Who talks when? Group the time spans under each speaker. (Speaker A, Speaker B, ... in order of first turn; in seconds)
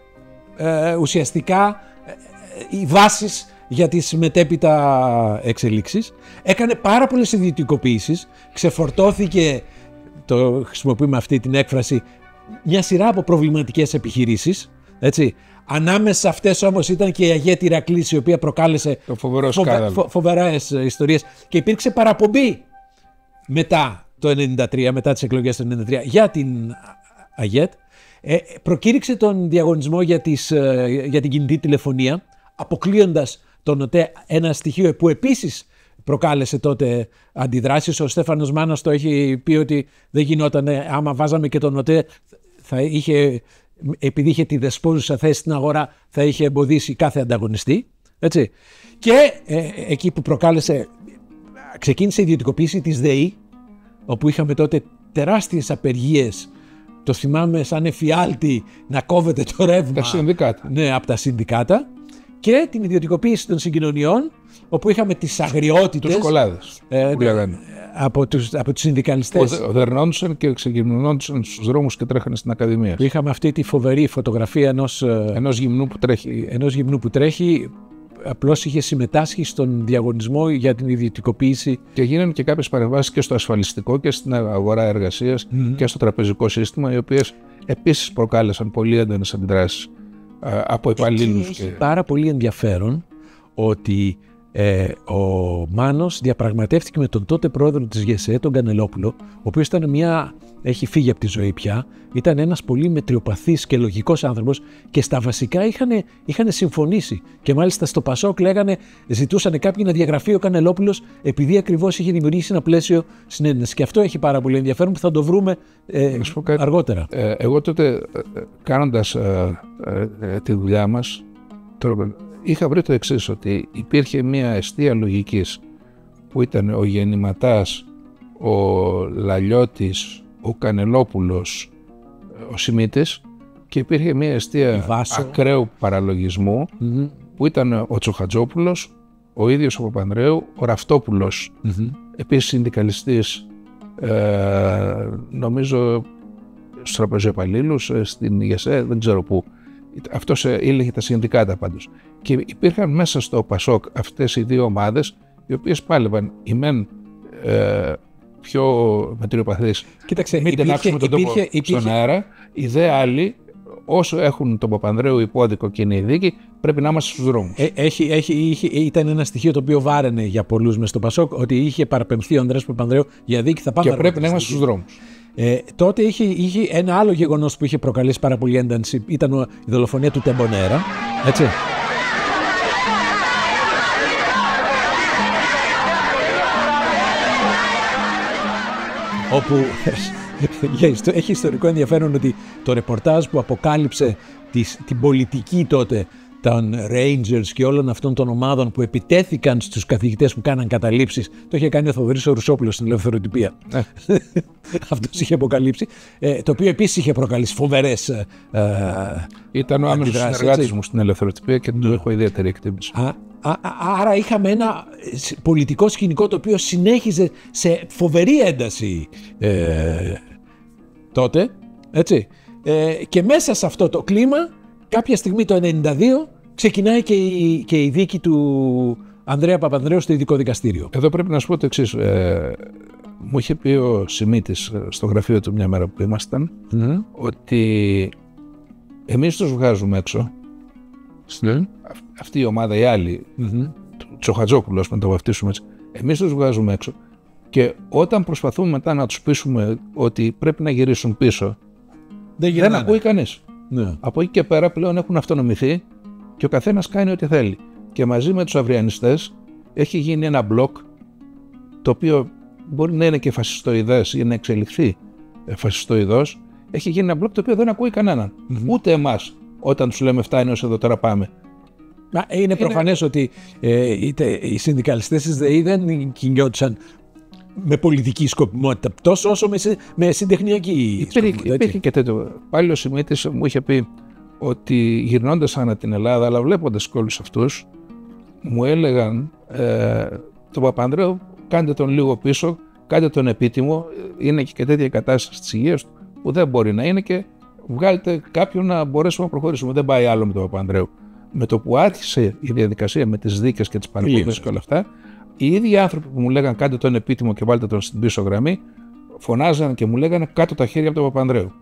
Speaker A: 0.6-9.6, 10.3-12.0, 12.7-22.6, 23.5-42.1, 42.7-50.9, 51.7-53.4, 54.1-56.5, 57.0-61.9, 62.4-66.3, 66.9-69.6, 73.0-75.4, 76.3-81.8, 85.5-85.8, 91.0-93.0, 93.6-117.1, 134.7-135.4, 136.8-137.1, 141.7-142.0, 160.1-161.9, 167.6-174.6, 175.4-181.6, 189.3-209.3, 209.9-210.7, 212.9-220.2, 221.1-230.9, 236.7-237.1, 241.3-241.7, 243.4-243.7, 252.4-253.0, 253.7-254.0, 272.1-276.8, 277.6-281.8, 304.0-304.6
Speaker B: 19.1-20.0, 60.0-60.7, 66.0-67.6, 69.3-73.0, 75.3-76.4, 82.0-89.9, 90.4-91.8, 116.1-121.2, 121.8-125.6, 126.3-127.9, 128.4-131.7, 132.4-136.7, 137.4-141.6, 142.2-143.5, 144.0-146.1, 146.8-163.4, 163.9-167.6, 173.8-175.0, 209.5-212.9, 230.9-232.7, 233.2-236.5, 237.2-238.1, 239.1-240.3, 241.9-243.3, 244.1-246.9, 247.5-251.6, 252.5-253.4, 254.0-255.8, 256.4-260.9, 261.8-271.3, 272.6-272.8, 281.0-283.9, 284.4-287.6, 288.4-304.9, 305.4-308.6, 309.2-311.5